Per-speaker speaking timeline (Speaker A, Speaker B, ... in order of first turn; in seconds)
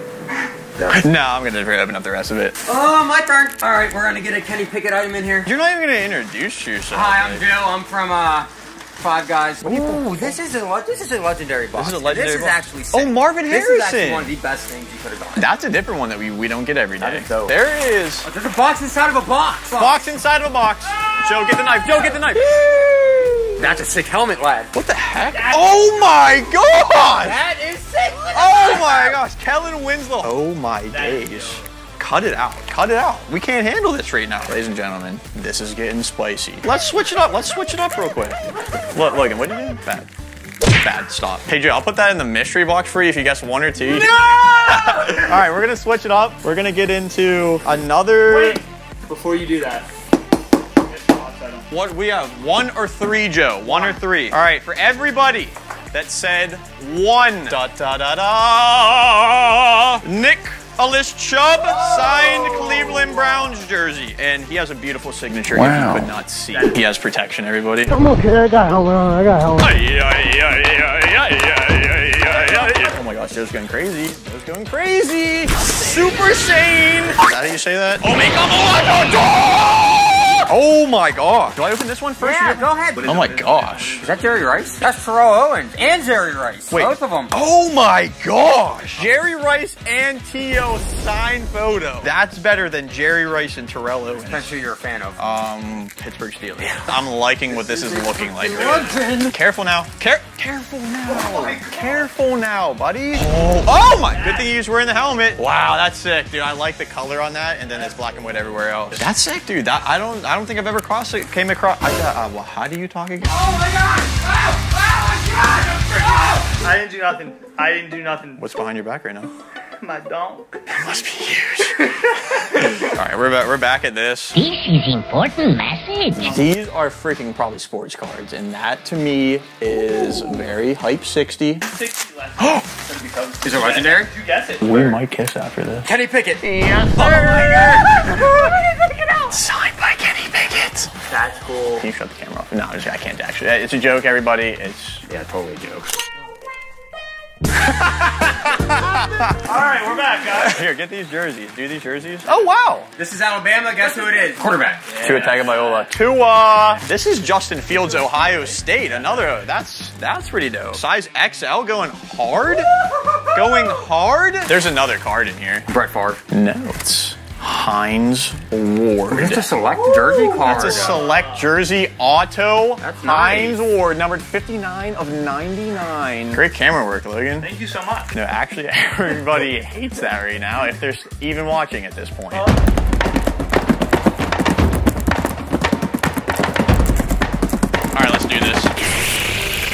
Speaker A: 0.8-1.1, 2.6-5.5, 6.9-15.5, 17.0-17.6, 18.2-20.0, 21.8-24.7, 27.1-29.2, 82.2-83.1, 84.0-87.3, 94.2-95.2, 97.5-99.3, 113.3-116.5, 133.4-134.1, 135.8-138.2, 138.9-139.2, 145.1-146.0, 153.0-155.9, 165.7-166.2, 169.1-171.1, 172.8-173.6
Speaker B: 0.9-2.6, 5.5-7.5, 9.6-10.4, 11.7-14.3, 15.4-18.3, 19.7-22.6, 24.7-27.4, 28.3-38.4, 38.9-40.1, 40.8-48.6, 51.7-68.1, 69.4-84.0, 86.7-94.6, 95.2-113.5, 118.4-119.3, 120.7-121.9, 122.7-124.4, 126.2-131.7, 134.6-135.9, 136.4-138.2, 139.3-140.9, 141.8-145.0, 147.8-149.4, 150.3-152.9, 154.9-162.7, 163.3-165.7, 166.3-177.5, 178.1-182.5, 187.9-188.7
Speaker C: 25.3-26.3, 30.9-31.6, 43.9-45.4, 48.2-49.9, 50.9-51.7, 53.7-54.0, 61.6-63.4, 66.5-66.8, 72.4-72.8, 83.0-84.1, 101.1-102.1, 104.0-104.5, 116.6-118.5, 119.8-120.6, 126.2-126.5, 131.7-135.0, 141.1-141.9, 149.4-150.6, 170.1-171.5, 177.4-178.2, 182.3-182.6
Speaker D: 124.3-126.3